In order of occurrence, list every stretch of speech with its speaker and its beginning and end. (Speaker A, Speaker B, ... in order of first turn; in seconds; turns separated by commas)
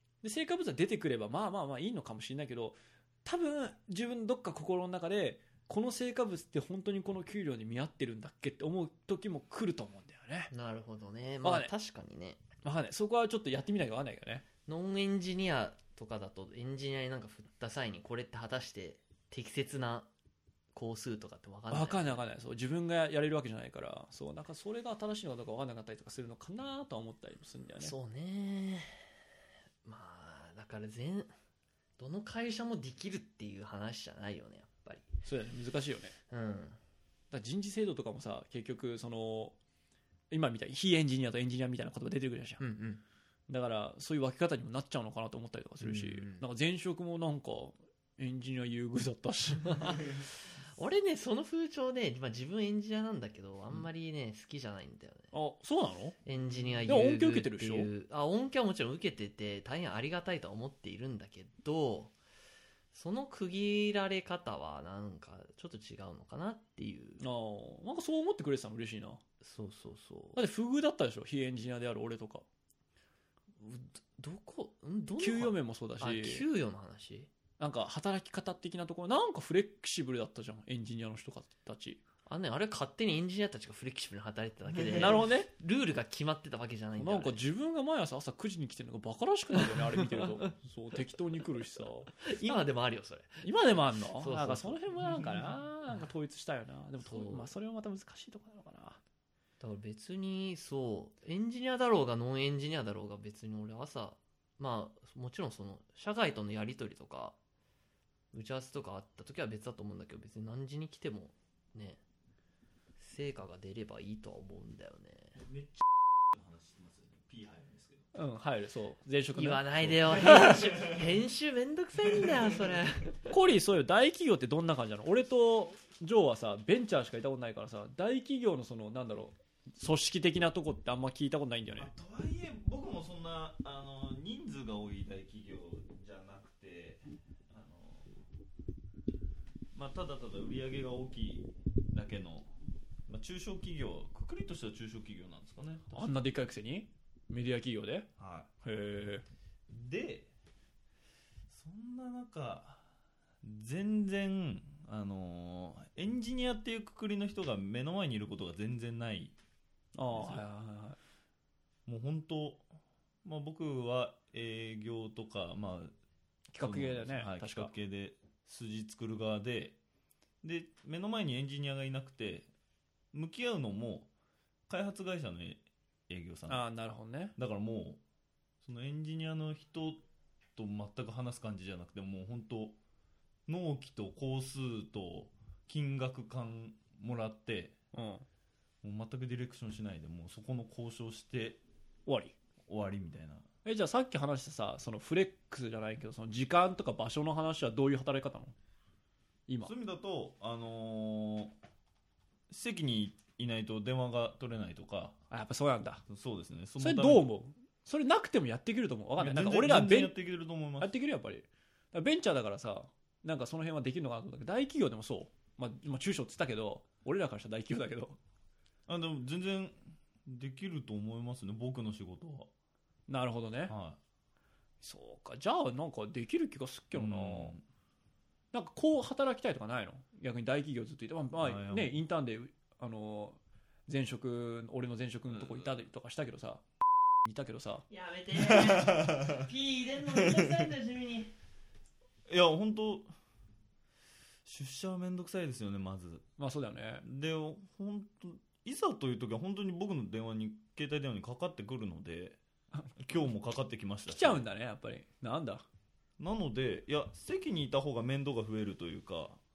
Speaker A: 0.2-10.5, Speaker B: 10.5-12.4, Speaker A: 11.4-11.7, Speaker A: 12.6-14.4, Speaker B: 14.7-20.1, Speaker B: 20.7-22.1, Speaker A: 21.7-27.9, Speaker B: 27.8-29.0, Speaker B: 29.8-31.3, Speaker B: 32.0-35.1, Speaker A: 35.2-36.1, Speaker B: 36.3-36.8, Speaker A: 37.3-39.5, Speaker A: 40.3-42.6, Speaker B: 42.6-43.0, Speaker A: 43.5-50.1, Speaker B: 45.8-46.4, Speaker B: 49.6-50.2, Speaker B: 50.7-55.3, Speaker A: 55.3-56.1, Speaker B: 56.2-62.1, Speaker A: 56.9-57.9, Speaker B: 62.9-67.2, Speaker A: 67.2-69.2, Speaker B: 69.4-70.4, Speaker A: 70.3-72.4, Speaker B: 73.6-77.3, Speaker A: 75.2-76.4, Speaker A: 77.6-82.0, Speaker B: 82.3-87.4, Speaker A: 84.9-85.5, Speaker A: 87.0-92.6, Speaker B: 89.6-90.5, Speaker B: 92.2-93.5, Speaker A: 93.4-99.0, Speaker B: 94.1-95.0, Speaker B: 97.0-97.5, Speaker B: 99.6-107.4, Speaker B: 108.3-112.0, Speaker B: 113.0-115.4, Speaker C: 115.4-118.1, Speaker A: 118.1-120.8, Speaker B: 119.3-123.2, Speaker A: 123.3-131.9, Speaker C: 131.7-138.1, Speaker C: 139.7-142.5, Speaker C: 143.1-146.0, Speaker A: 145.9-148.1, Speaker C: 148.2-148.5, Speaker A: 148.6-149.2, Speaker C: 149.7-150.3, Speaker C: 151.5-152.9, Speaker C: 153.4-159.3, Speaker A: 159.9-161.0, Speaker C: 160.1-160.4, Speaker C: 161.8-162.6, Speaker C: 163.2-165.9, Speaker A: 166.5-167.7, Speaker C: 166.6-169.8, Speaker C: 170.4-172.5, Speaker C: 173.1-174.1, Speaker C: 174.7-176.6, Speaker A: 176.5-177.3, Speaker C: 177.4-178.0, Speaker C: 178.6-180.0, Speaker C: 180.6-182.8, Speaker C: 183.5-187.8, Speaker A: 187.9-188.2, Speaker C: 188.8-191.6, Speaker A: 192.1-192.3, Speaker C: 192.7-193.5, Speaker A: 193.6-198.5, Speaker C: 199.6-201.5, Speaker C: 202.5-205.2, Speaker A: 205.3-206.0, Speaker C: 206.1-207.3, Speaker A: 206.8-210.1, Speaker C: 209.2-210.9, Speaker A: 210.8-218.2, Speaker C: 218.9-222.5, Speaker A: 223.1-223.7, Speaker C: 223.7-224.0, Speaker A: 224.8-227.6, Speaker C: 226.9-227.6, Speaker A: 228.5-236.6, Speaker C: 231.4-232.0, Speaker A: 237.2-237.8, Speaker B: 237.9-241.3, Speaker C: 238.3-239.5, Speaker C: 240.0-240.7, Speaker C: 242.3-243.1, Speaker C: 244.4-246.2, Speaker A: 246.4-247.0, Speaker C: 247.0-252.4, Speaker C: 253.0-254.4, Speaker A: 254.1-255.6, Speaker C: 256.2-259.4